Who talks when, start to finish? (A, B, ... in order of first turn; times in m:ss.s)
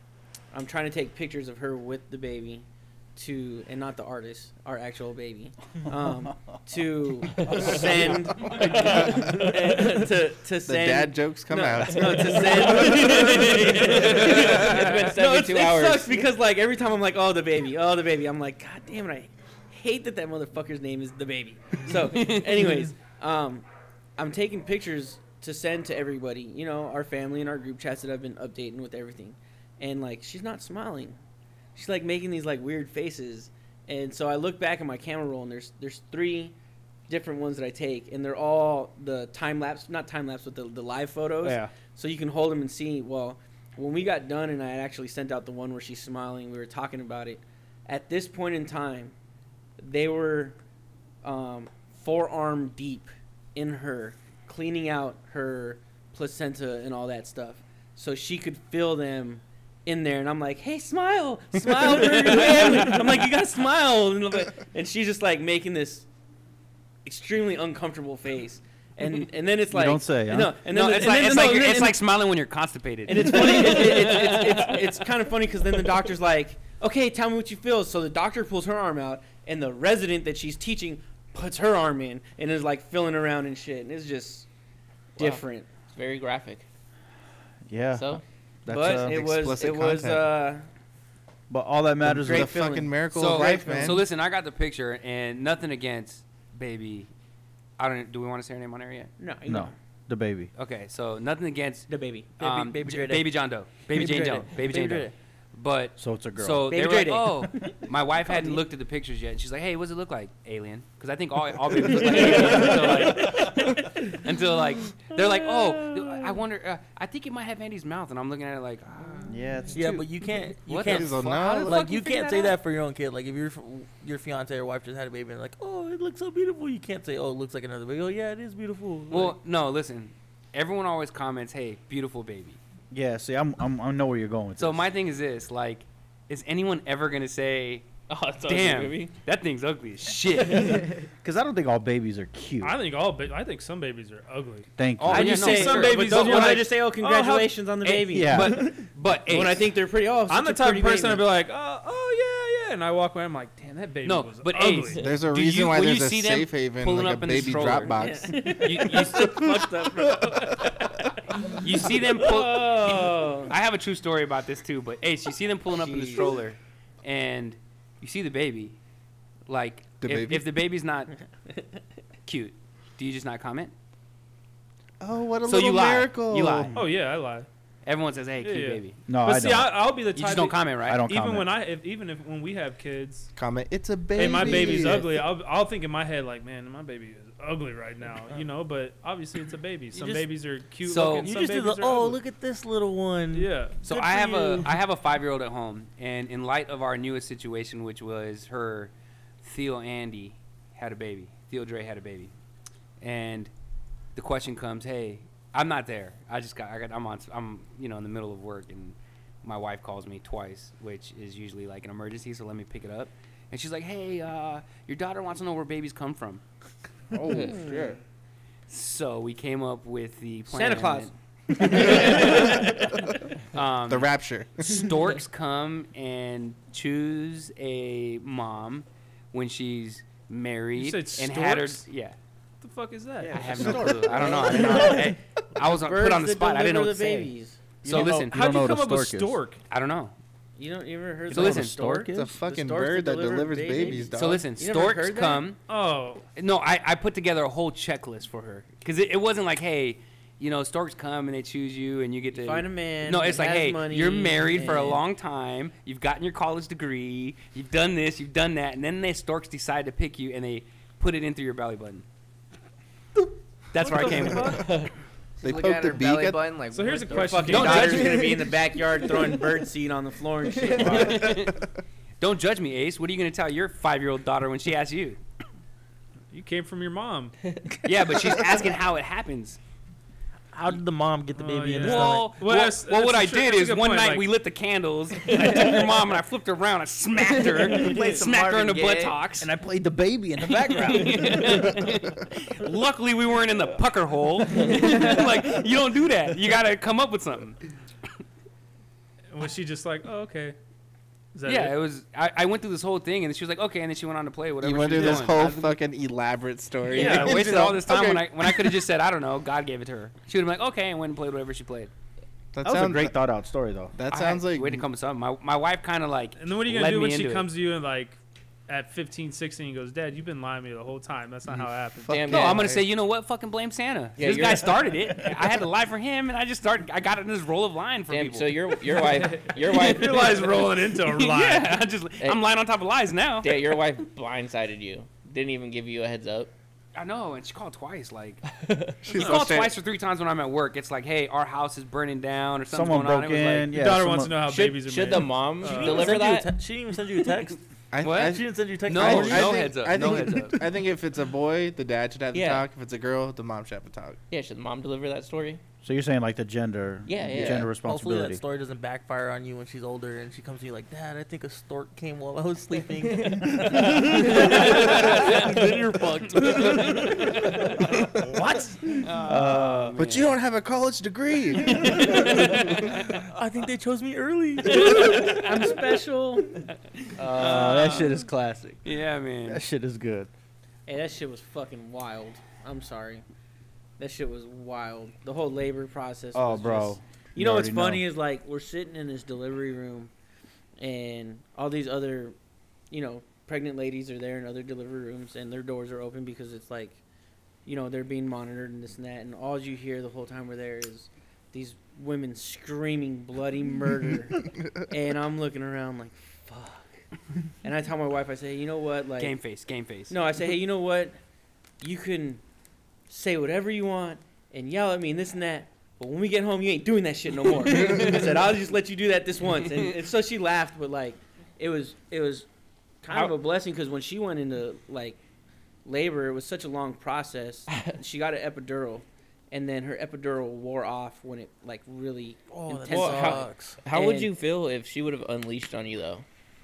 0:00.5-0:23.7 A
0:08.5-0:09.5 B
0:10.6-0:13.2 B
0:12.8-0:16.2 C
0:22.1-0:22.5 D
0:24.2-0:31.2 A
0:31.7-0:36.6 A
0:37.1-0:49.1 A
0:41.4-0:41.7 E
0:49.8-0:50.6 A
0:51.2-1:06.1 A
1:02.6-1:02.9 D
1:07.0-1:12.0 A
1:09.7-1:10.6 E
1:10.7-1:14.8 D
1:13.1-1:24.5 A
1:25.2-1:25.7 A
1:25.2-1:26.6 C
1:27.7-1:30.3 E
1:27.9-1:28.2 C
1:28.7-1:30.7 A
1:29.0-1:29.3 B
1:31.5-1:32.6 E
1:32.0-1:34.0 B
1:32.1-1:33.9 A
1:33.1-1:37.1 D
1:37.8-1:39.1 D
1:39.2-1:39.7 A
1:39.5-1:40.5 E
1:40.6-2:00.1 D
1:41.9-1:42.4 A
1:42.4-1:45.1 F
1:46.0-1:46.7 E
1:46.6-1:48.6 A
1:51.9-1:54.1 A
1:52.3-1:53.0 F
1:59.3-1:59.8 E
1:59.7-2:09.4 F
2:00.6-2:02.6 D
2:00.9-2:01.8 B
2:09.1-2:12.6 D
2:12.9-2:14.9 E
2:14.6-2:17.9 D
2:18.1-2:19.1 C
2:18.4-2:20.9 D
2:20.4-2:20.9 C
2:21.2-2:22.8 E
2:22.6-2:28.0 G
2:24.8-2:25.5 E
2:25.0-2:26.7 D
2:25.1-2:31.3 A
2:27.9-2:29.7 D
2:28.1-2:28.7 E
2:30.3-2:35.1 G
2:34.0-2:39.5 D
2:35.0-2:38.8 B
2:37.9-2:43.5 A
2:41.5-2:48.8 D
2:42.3-2:43.0 G
2:45.7-2:46.4 A
2:49.5-2:51.1 D
2:50.0-2:50.4 B
2:52.3-2:53.7 D
2:55.0-2:56.7 B
2:55.4-2:56.7 D
2:56.7-2:57.5 G
2:57.8-2:59.0 D
2:58.4-3:03.3 G
2:59.0-2:59.8 E
3:00.1-3:01.0 D
3:00.9-3:01.5 E
3:03.3-3:05.2 B
3:04.1-3:12.2 G
3:04.4-3:05.2 F
3:09.9-3:10.3 F
3:10.8-3:11.3 D
3:11.2-3:14.8 F
3:13.3-3:13.8 G
3:13.8-3:22.3 D
3:23.0-3:23.5 D
3:24.1-3:36.4 D
3:37.1-3:38.0 B
3:37.3-3:37.6 C
3:37.4-3:37.9 A
3:38.7-3:42.8 D
3:40.5-3:42.9 A
3:43.5-3:52.2 D
3:43.9-3:44.9 B
3:50.8-3:51.9 G
3:52.6-3:53.5 G
3:53.3-3:57.3 D
3:53.4-3:54.5 E
3:53.7-3:57.8 A
3:57.8-3:58.4 D
3:57.8-3:59.4 E
3:57.9-3:59.6 G
3:59.7-4:00.1 D
4:00.6-4:05.5 A
4:01.3-4:02.3 E
4:01.3-4:01.7 D
4:02.1-4:04.5 B
4:04.1-4:05.6 D
4:05.7-4:06.2 G
4:06.4-4:22.0 D
4:12.3-4:15.0 A
4:23.7-4:24.8 D
4:23.8-4:24.8 G
4:24.6-4:24.9 C
4:25.4-4:28.4 H
4:25.4-4:26.5 B
4:26.7-4:28.3 G
4:27.1-4:31.3 A
4:27.5-4:28.2 D
4:30.8-4:31.6 D
4:32.2-4:35.2 D
4:36.3-4:37.3 G
4:37.8-4:39.6 D
4:40.5-4:42.3 F
4:41.4-4:44.3 G
4:41.8-4:49.5 D
4:47.2-4:49.3 H
4:49.4-4:51.7 E
4:50.4-4:57.6 D
4:59.3-5:00.6 G
5:01.3-5:01.7 G
5:01.4-5:05.8 D
5:04.6-5:08.8 B
5:06.9-5:07.8 G
5:06.9-5:11.9 D
5:12.5-5:13.1 B
5:12.6-5:14.0 E
5:14.0-5:14.9 B
5:14.1-5:17.5 D
5:16.4-5:22.2 G
5:21.5-5:22.8 B
5:22.1-5:22.7 C
5:22.3-5:28.8 D
5:24.2-5:24.7 C
5:28.1-5:30.6 C
5:29.0-5:31.7 G
5:31.0-5:33.6 D
5:33.4-5:36.5 C
5:37.0-5:38.4 D
5:38.6-5:38.9 C
5:39.0-5:39.7 B
5:39.0-5:43.8 D
5:39.1-5:39.4 G
5:42.7-5:44.4 E
5:43.7-5:46.2 G
5:44.4-5:46.5 C
5:45.6-5:47.6 F
5:47.9-5:54.2 B
5:48.0-5:50.6 D
5:48.1-5:49.7 F
5:52.3-5:52.7 C
5:54.3-5:55.6 C
5:55.8-5:58.4 E
5:57.0-5:57.8 C
5:57.7-6:07.5 F
6:03.0-6:04.8 C
6:05.1-6:05.4 D
6:06.4-6:07.4 D
6:08.3-6:10.0 E
6:08.9-6:10.3 D
6:10.0-6:12.9 B
6:11.6-6:13.2 D
6:13.1-6:15.7 F
6:14.7-6:16.6 A
6:17.2-6:18.8 E
6:17.3-6:18.2 A
6:18.8-6:19.6 D
6:19.4-6:20.3 E
6:20.9-6:23.2 A
6:24.0-6:30.1 A
6:26.3-6:28.0 E
6:30.8-6:32.3 A
6:32.9-6:37.0 A
6:37.6-6:44.4 A
6:44.9-6:46.9 A
6:47.6-6:49.3 A
6:49.2-6:50.2 D
6:50.1-6:51.2 A
6:51.8-6:52.4 A
6:53.1-7:02.5 A
6:57.7-6:58.2 D
7:03.0-7:05.2 A
7:05.8-7:14.3 A
7:12.5-7:13.8 F
7:12.9-7:16.2 C